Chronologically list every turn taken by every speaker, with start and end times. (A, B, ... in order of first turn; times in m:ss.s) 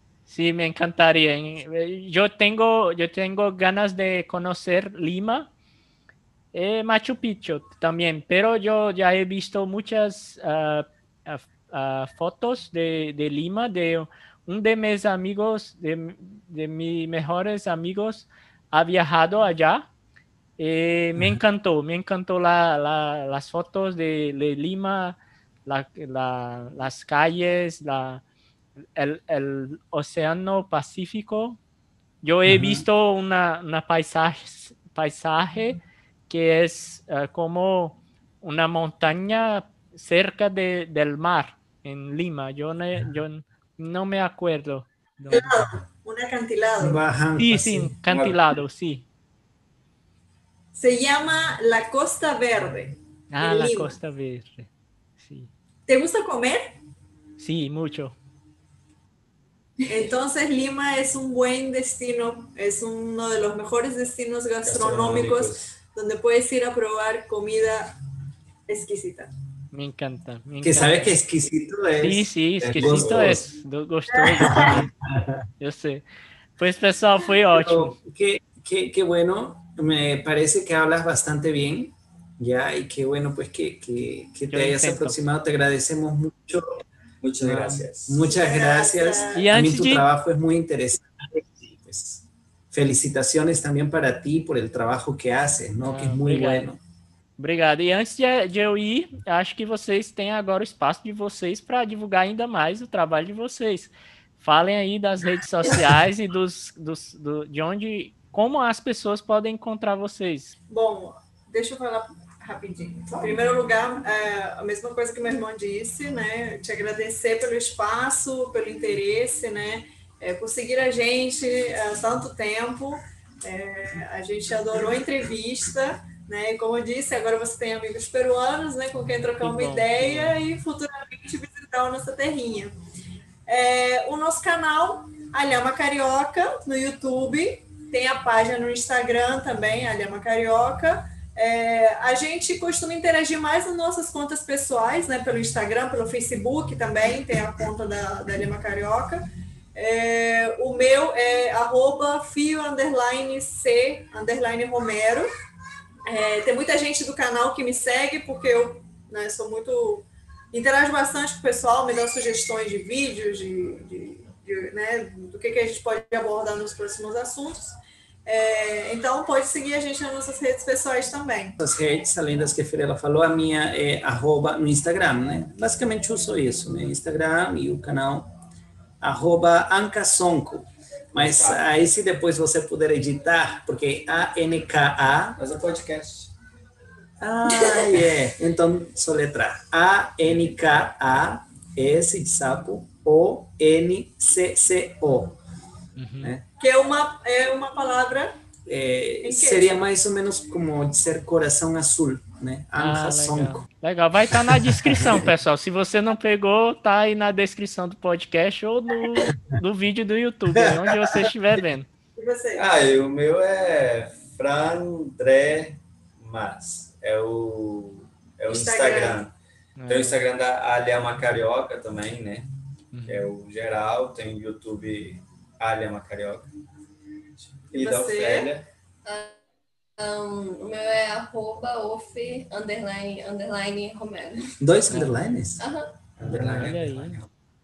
0:00.3-0:05.5 A
0:06.5-0:19.9 A
0:20.6-0:28.2 A
0:29.0-0:31.6 A
0:32.2-0:35.8 A
0:32.4-0:32.8 B
0:36.3-0:45.7 A
0:45.3-0:47.0 C
0:46.8-0:47.9 B
0:47.4-0:49.0 A
0:48.1-0:48.4 D
0:50.7-0:54.0 C
0:53.3-0:54.7 A
0:55.2-0:55.5 A
0:55.9-0:56.6 C
0:57.4-0:58.2 A
0:59.8-1:07.9 C
1:04.6-1:05.7 D
1:08.7-1:09.3 C
1:09.7-1:11.1 A
1:10.6-1:13.4 B
1:12.0-1:14.8 A
1:12.6-1:13.4 D
1:14.1-1:14.6 C
1:14.5-1:15.4 B
1:15.6-1:16.0 A
1:16.6-1:18.0 A
1:17.5-1:26.8 B
1:24.5-1:25.2 A
1:27.2-1:28.2 D
1:27.4-1:36.8 B
1:28.2-1:29.4 C
1:29.3-1:30.0 A
1:35.8-1:36.7 A
1:37.4-1:50.5 A
1:50.7-2:12.7 C
2:09.4-2:10.4 A
2:13.5-2:29.2 C
2:29.7-2:35.3 C
2:36.1-2:51.6 C
2:51.6-2:58.3 B
2:59.0-3:05.4 B
3:01.1-3:01.6 D
3:05.4-3:06.3 D
3:07.2-3:15.4 B
3:16.0-3:16.3 A
3:16.6-3:18.3 C
3:18.7-3:23.6 B
3:19.2-3:19.8 C
3:22.8-3:31.9 A
3:24.5-3:25.1 B
3:32.2-3:32.7 C
3:32.6-3:39.3 D
3:38.5-3:39.2 C
3:39.8-3:40.2 A
3:39.9-3:42.5 D
3:42.9-3:43.3 A
3:43.1-3:46.5 D
3:47.4-3:48.6 D
3:47.7-3:48.5 C
3:49.0-3:49.4 E
3:50.0-3:54.6 E
3:54.6-3:55.6 B
3:55.6-3:55.9 E
3:56.2-3:57.3 D
3:56.2-3:57.2 A